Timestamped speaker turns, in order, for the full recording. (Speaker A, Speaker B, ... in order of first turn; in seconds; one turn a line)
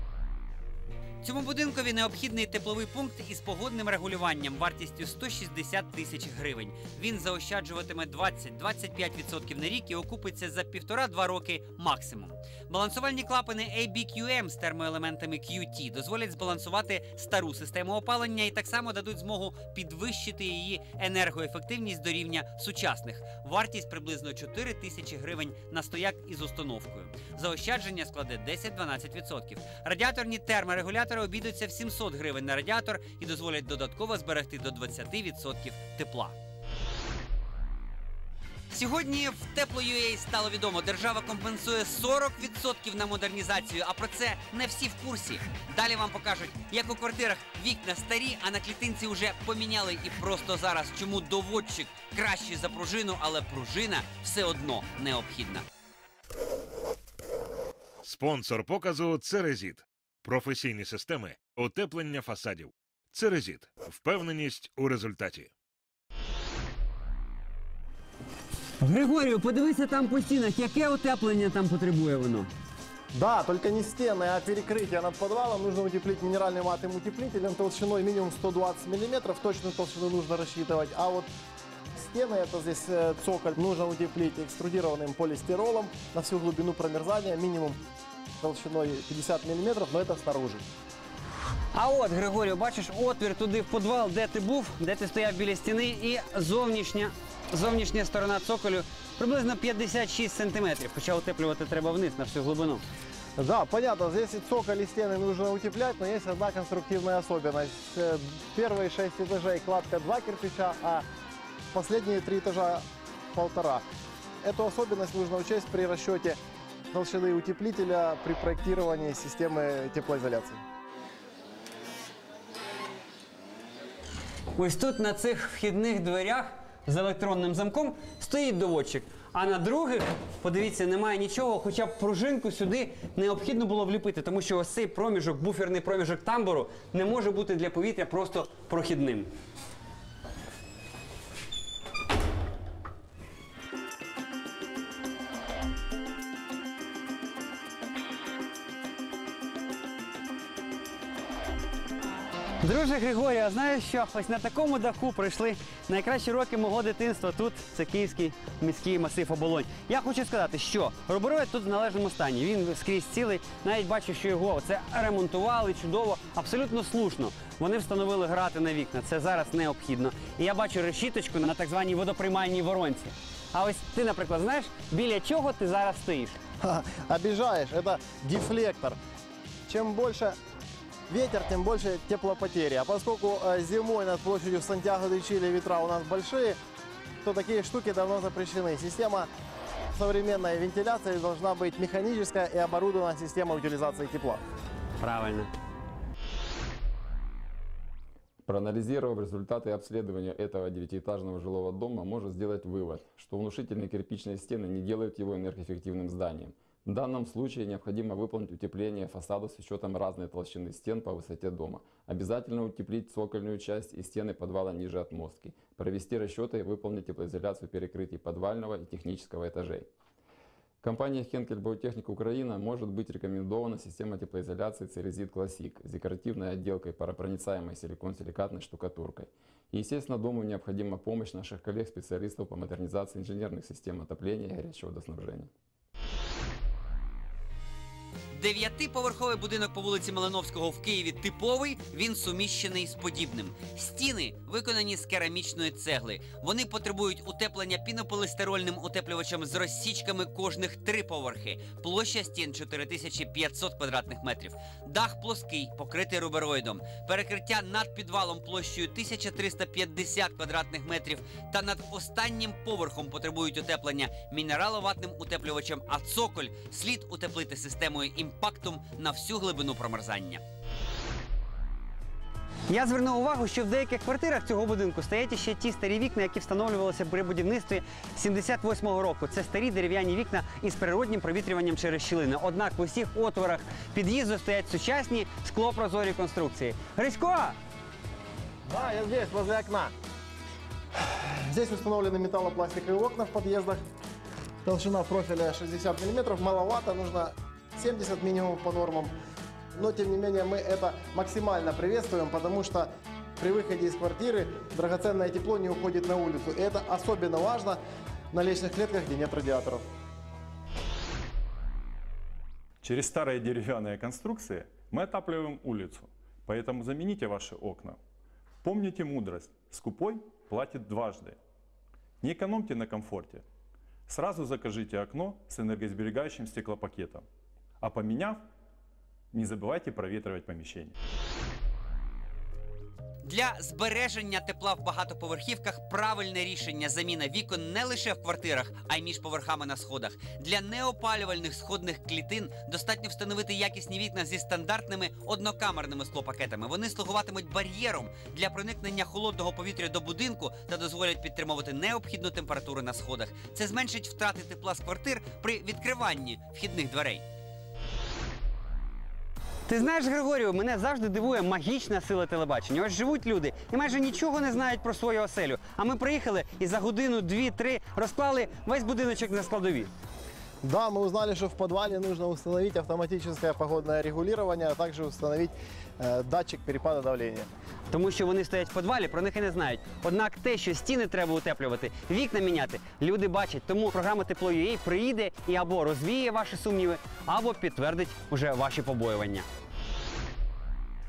Speaker A: 1.2-36.4
Speaker A: 38.7-55.6
Speaker B: 58.0-65.5
Speaker A: 68.8-72.5
Speaker C: 73.1-81.3
Speaker C: 81.9-87.8
Speaker C: 88.4-90.7
Speaker A: 91.7-102.8
Speaker C: 103.4-111.0
Speaker C: 111.7-112.8
Speaker C: 113.3-113.8
Speaker C: 114.4-116.4
Speaker C: 116.9-120.6
Speaker A: 124.6-139.3
Speaker A: 152.6-176.4
Speaker C: 176.6-179.0
Speaker C: 179.7-180.4
Speaker C: 181.1-186.6
Speaker C: 187.2-189.3
Speaker C: 189.9-194.4
Speaker A: 195.0-195.5
Speaker D: 198.5-219.9
Speaker D: 220.8-235.5
Speaker A: 238.3-270.4
Speaker A: 272.7-287.6
Speaker C: 288.7-289.9
Speaker C: 291.5-293.8
Speaker C: 294.6-299.1
Speaker C: 299.7-307.8
Speaker C: 308.3-309.8
Speaker E: 312.8-318.0
Speaker E: 318.6-321.4
Speaker E: 322.2-323.4
Speaker E: 324.1-327.2
Speaker E: 327.8-328.5
Speaker E: 329.3-330.9
Speaker A: 333.2-357.2
Speaker A: 359.7-369.9
Speaker C: 370.6-377.5
Speaker A: 377.9-389.5